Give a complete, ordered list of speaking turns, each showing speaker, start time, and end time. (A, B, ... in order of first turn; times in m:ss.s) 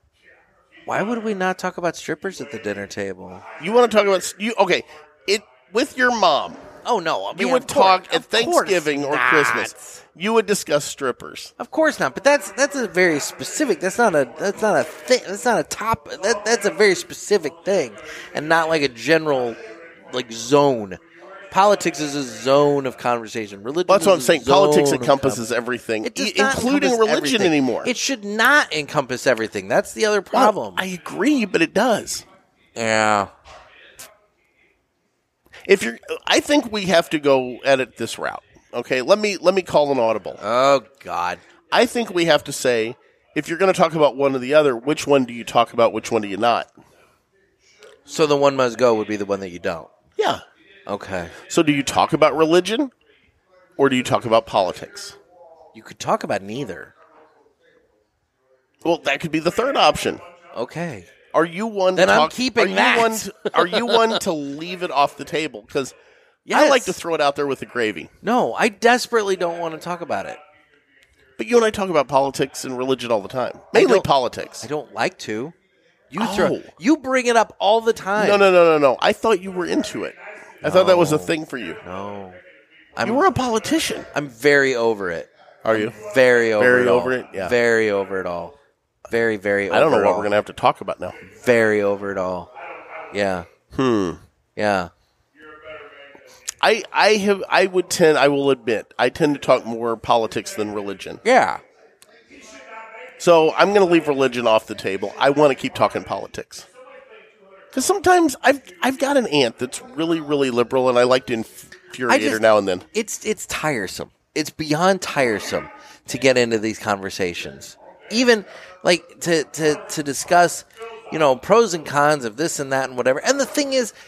0:00.8-0:03.4 A
0:03.6-0:06.6 B
0:06.8-0:10.0 A
0:07.3-0:11.5 B
0:11.6-0:19.6 A
0:20.1-0:21.0 A
0:21.5-0:25.4 A
0:23.9-0:27.9 B
0:26.0-0:30.8 A
0:30.3-0:32.2 B
0:32.8-0:33.3 A
0:35.7-0:40.4 B
0:40.4-0:41.4 A
0:41.7-0:46.7 B
0:48.1-0:49.9 A
0:50.2-0:50.4 B
0:50.9-0:51.3 A
0:51.5-0:52.9 B
0:53.8-0:55.2 B
0:55.7-0:56.9 A
0:58.8-1:00.2 B
1:00.5-1:01.1 A
1:01.3-1:05.9 B
1:02.0-1:04.2 A
1:06.5-1:07.0 A
1:06.5-1:08.1 B
1:08.2-1:10.4 A
1:11.4-1:14.7 B
1:13.7-1:14.1 A
1:14.6-1:15.5 A
1:16.1-1:18.5 A
1:16.2-1:16.7 B
1:18.2-1:21.8 B
1:20.6-1:22.4 A
1:23.0-1:23.2 A
1:23.0-1:24.1 B
1:24.1-1:28.5 A
1:25.6-1:26.0 B
1:26.6-1:27.6 B
1:29.1-1:30.3 A
1:29.7-1:31.2 B
1:31.2-1:32.5 A
1:33.1-1:33.4 A
1:33.7-1:34.2 B
1:34.6-1:34.9 A
1:36.6-1:41.2 B
1:41.2-1:41.6 A
1:43.2-1:46.6 B
1:47.7-1:52.8 B
1:52.1-1:52.4 A
1:52.9-2:03.9 A